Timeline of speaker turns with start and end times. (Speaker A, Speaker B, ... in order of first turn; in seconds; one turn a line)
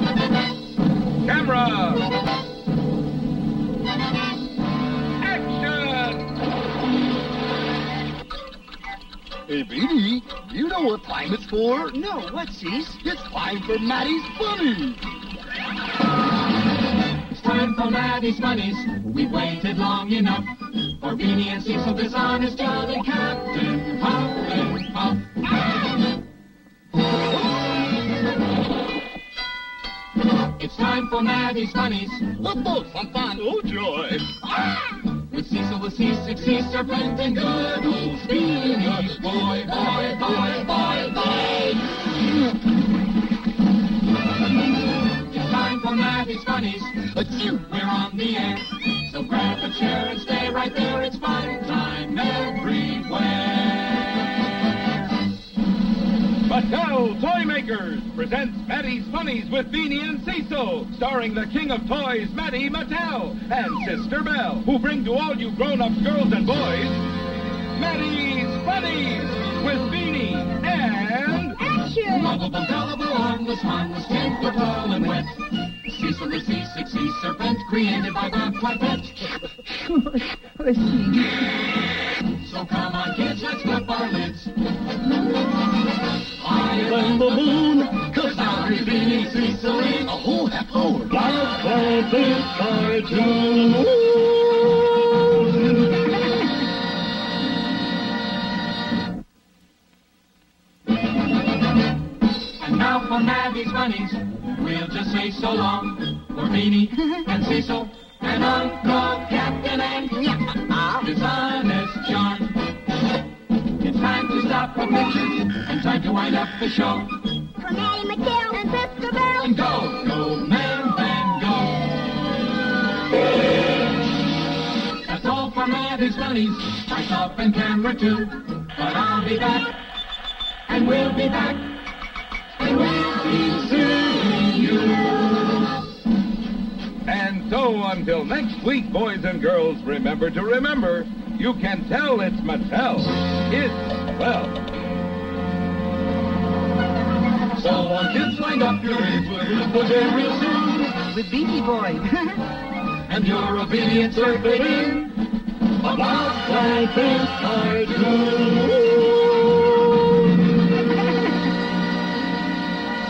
Speaker A: 1.2-2.1
Speaker A: 5.2-6.3
Speaker B: 9.5-12.0
Speaker C: 11.9-13.0
Speaker B: 13.0-15.0
Speaker D: 17.3-25.4
Speaker D: 30.6-32.4
Speaker B: 32.4-33.9
Speaker A: 33.5-34.2
Speaker D: 35.1-41.5
Speaker D: 45.1-54.2
Speaker A: 56.5-67.1
Speaker A: 67.8-71.6
Speaker E: 71.7-72.0
Speaker D: 72.0-79.3
Speaker C: 79.9-81.3
Speaker D: 82.3-84.6
Speaker D: 86.3-90.2
Speaker B: 90.1-91.3
Speaker A: 91.1-94.1
Speaker D: 102.5-112.8
Speaker D: 113.6-117.5
Speaker E: 117.6-119.5
Speaker D: 119.4-122.0
Speaker D: 125.0-129.8
Speaker D: 130.7-131.8
Speaker D: 132.5-135.4
Speaker A: 137.1-144.6
Speaker D: 147.6-151.0
Speaker C: 151.0-152.4
Speaker D: 152.9-155.2
Speaker A: 155.9-159.5